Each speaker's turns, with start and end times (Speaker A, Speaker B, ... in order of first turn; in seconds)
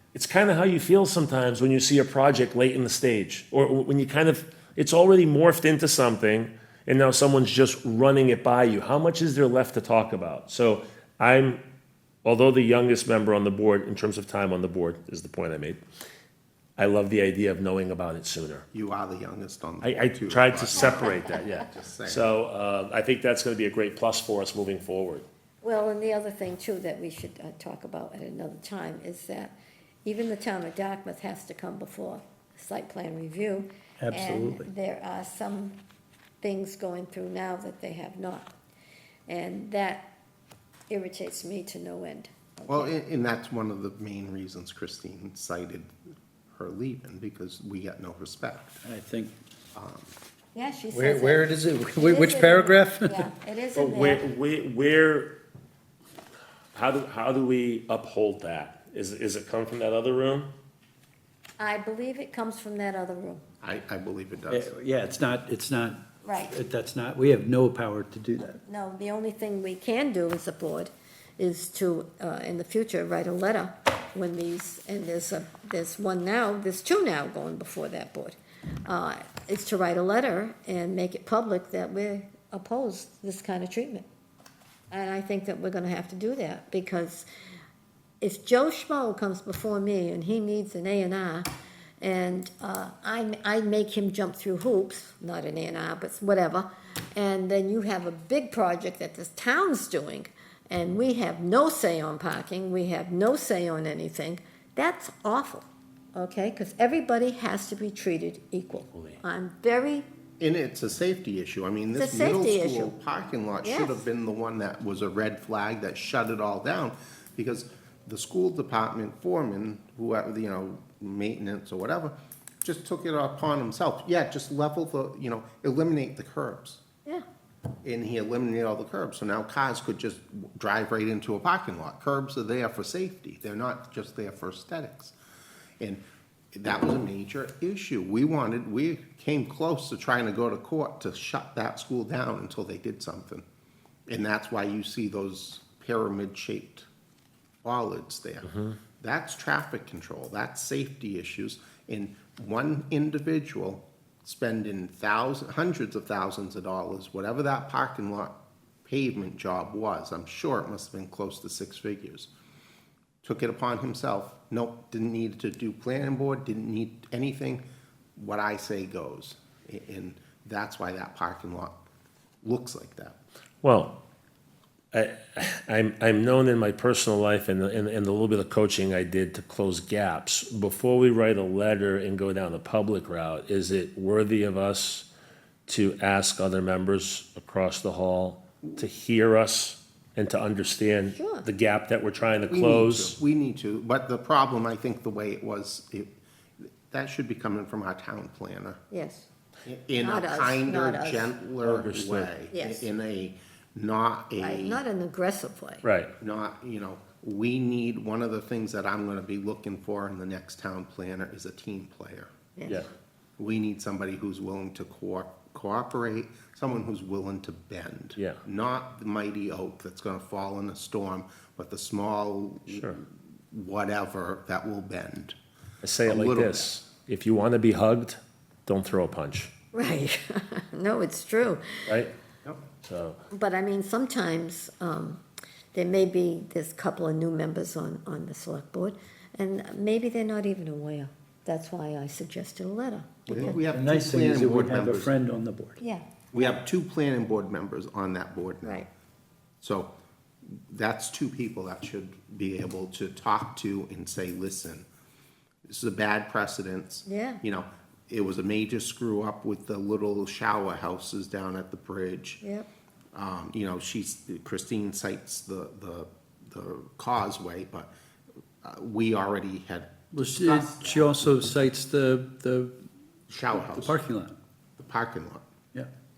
Speaker A: 0.1-11.6, 12.2-15.8, 16.8-18.6, 19.8-25.2, 53.7-55.4, 56.7-60.5, 108.9-109.2, 173.6-173.9, 174.9-185.1, 185.7-193.2, 201.6-202.3, 205.8-206.1, 222.7-223.0, 225.8-229.5, 232.8-233.2
Speaker B: 18.7-22.3, 42.7-45.9, 46.5-48.8, 49.7-50.1, 63.6-64.7, 110.4-126.8, 127.8-135.1, 136.5-143.4, 144.1-146.9, 147.6-158.3, 158.8-162.3, 163.2-167.6, 168.2-171.8, 172.4-173.2, 192.5-196.1, 196.9-198.8, 199.6-204.8, 206.2-212.3, 213.4-225.3, 226.1-226.7, 243.2-245.1, 246.3-248.8, 249.6-249.9, 250.5-254.8, 255.7-262.4, 263.1-267.9, 268.6-271.1, 273.3-274.0, 274.8-275.4
Speaker C: 20.7-21.1, 25.6-35.8, 36.4-38.5, 39.3-40.1, 40.9-42.9, 50.5-54.2, 61.6-63.4, 66.2-66.5, 68.6-84.0, 84.9-87.3, 88.2-91.5, 92.0-110.1, 111.9-112.9, 113.6-114.0, 191.1-191.5, 198.9-199.3, 200.0-201.3, 202.5-202.9, 204.4-205.8, 212.6-212.8, 229.7-231.9, 233.3-235.2, 235.7-243.6, 248.6-248.9, 257.1-257.4, 262.4-262.7
Speaker D: 34.0-34.7, 48.8-49.3, 50.9-53.3, 64.5-68.6, 243.7-245.8, 270.1-272.7, 273.5-274.3